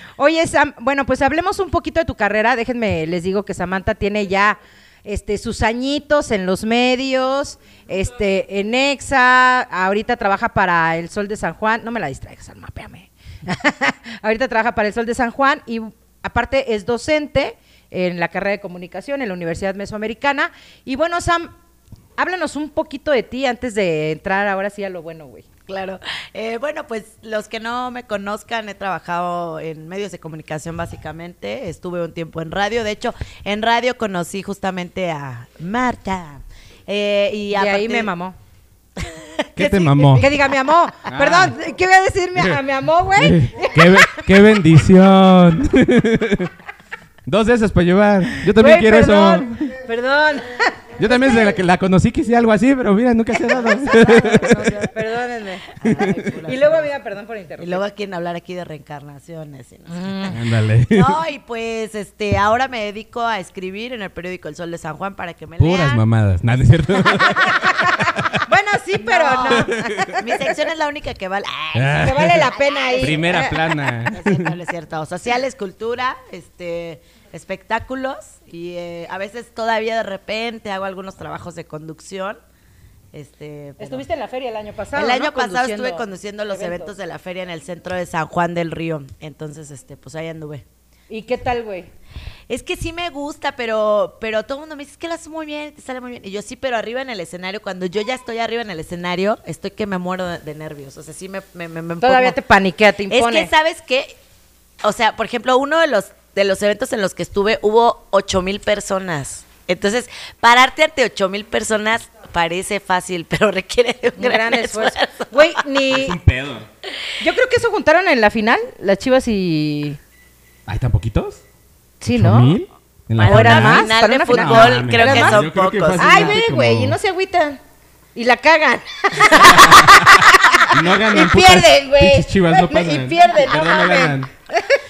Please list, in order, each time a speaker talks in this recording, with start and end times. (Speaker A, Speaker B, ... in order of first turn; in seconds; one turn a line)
Speaker A: 0.2-21.5
Speaker A: 22.2-25.4
Speaker B: 25.7-38.1
Speaker A: 37.5-38.4
Speaker B: 39.0-40.4
Speaker C: 39.5-40.3
Speaker A: 40.1-44.2
Speaker C: 41.1-41.6
Speaker C: 42.4-42.6
Speaker C: 43.1-46.5
Speaker C: 47.2-49.8
Speaker A: 48.5-51.6
Speaker C: 51.0-54.9
Speaker B: 53.5-55.0
Speaker A: 54.0-55.8
Speaker B: 55.7-56.9
Speaker C: 55.9-56.4
Speaker A: 56.4-57.8
Speaker B: 57.6-60.3
Speaker A: 59.9-60.4
Speaker C: 60.3-61.2
Speaker B: 60.9-66.0
Speaker C: 65.6-67.6
Speaker A: 67.2-70.3
Speaker B: 69.0-82.4
Speaker C: 69.4-70.2
Speaker C: 71.7-74.5
Speaker A: 72.0-73.6
Speaker B: 83.1-84.0
Speaker A: 83.8-86.9
Speaker B: 84.9-90.6
Speaker A: 91.1-91.9
Speaker B: 92.5-102.4
Speaker A: 102.0-103.5
Speaker B: 103.1-104.2
Speaker B: 104.8-115.3
Speaker A: 114.2-116.2
Speaker C: 115.9-116.7
Speaker A: 117.2-120.0
Speaker C: 120.7-121.4
Speaker A: 122.0-122.5
Speaker C: 122.1-127.0
Speaker B: 123.2-126.3
Speaker A: 123.2-125.4
Speaker A: 126.0-127.6
Speaker A: 128.1-134.8
Speaker C: 129.4-134.3